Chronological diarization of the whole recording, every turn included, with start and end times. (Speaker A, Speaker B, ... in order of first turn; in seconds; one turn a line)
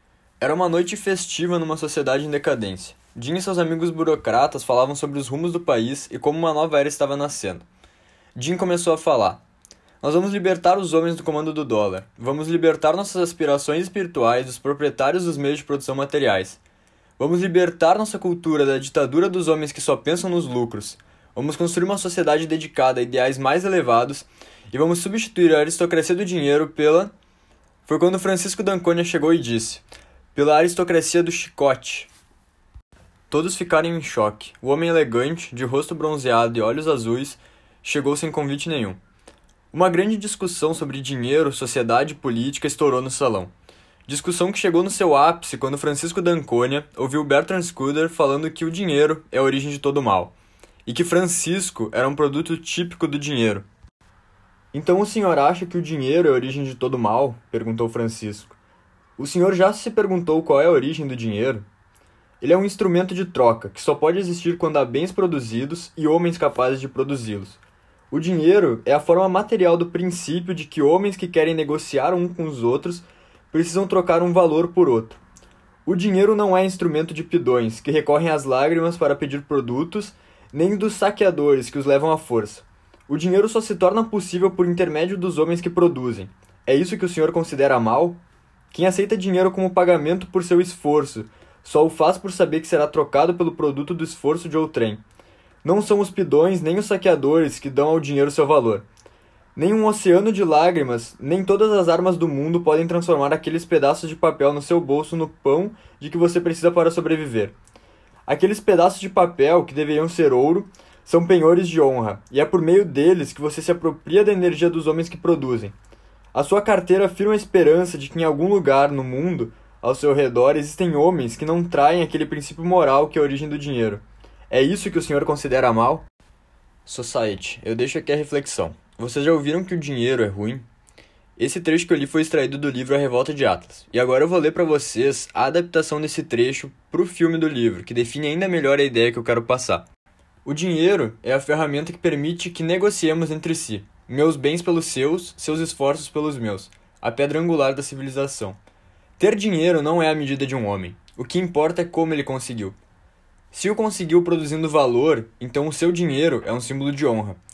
Speaker A: 0.4-7.7
Speaker A: 8.3-9.4
Speaker A: 10.0-16.6
Speaker A: 17.2-27.1
Speaker A: 27.9-29.8
Speaker A: 30.3-32.1
Speaker A: 33.3-39.0
Speaker A: 39.7-43.5
Speaker A: 44.1-50.3
Speaker A: 50.9-53.6
Speaker A: 54.7-58.6
Speaker A: 59.2-61.6
Speaker A: 62.4-67.6
Speaker A: 68.1-75.2
Speaker A: 75.8-88.2
Speaker A: 88.7-95.0
Speaker A: 95.6-98.8
Speaker A: 99.5-107.5
Speaker A: 108.3-115.7
Speaker A: 116.3-126.0
Speaker A: 126.8-130.7
Speaker A: 131.4-139.8
Speaker A: 140.4-148.6
Speaker A: 149.2-152.8
Speaker A: 153.5-157.4